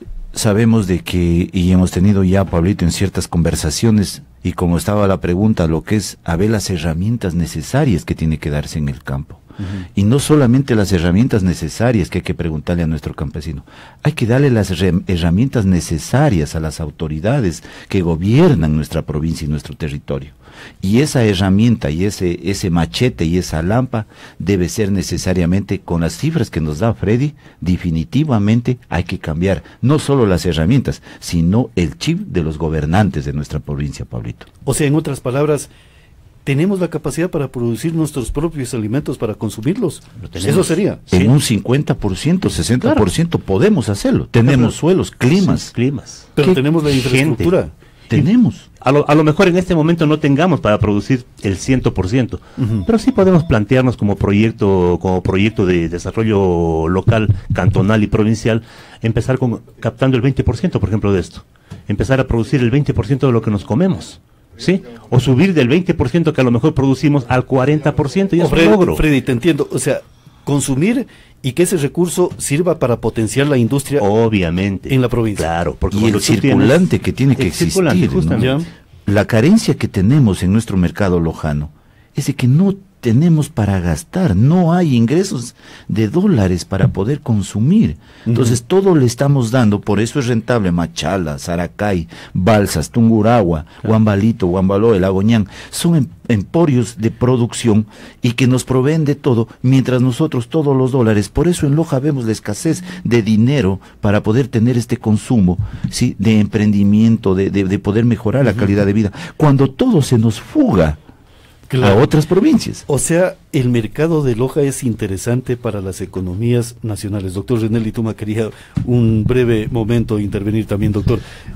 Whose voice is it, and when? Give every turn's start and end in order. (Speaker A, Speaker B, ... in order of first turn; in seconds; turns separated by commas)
Speaker A: 0.3-9.4, Speaker A: 9.9-34.5, Speaker B: 34.6-35.7, Speaker B: 36.4-41.0, Speaker C: 40.2-41.3, Speaker A: 41.1-45.7, Speaker B: 44.4-44.7, Speaker C: 45.7-46.3, Speaker B: 46.4-47.7, Speaker C: 47.0-47.5, Speaker A: 48.1-48.7, Speaker C: 48.8-69.0, Speaker B: 52.6-52.9, Speaker B: 68.4-74.1, Speaker C: 74.0-78.6, Speaker B: 74.9-75.5, Speaker A: 75.9-78.5, Speaker B: 78.3-78.7, Speaker A: 79.0-111.0, Speaker B: 88.3-88.6, Speaker B: 111.7-112.1, Speaker A: 111.8-112.8, Speaker B: 112.8-121.2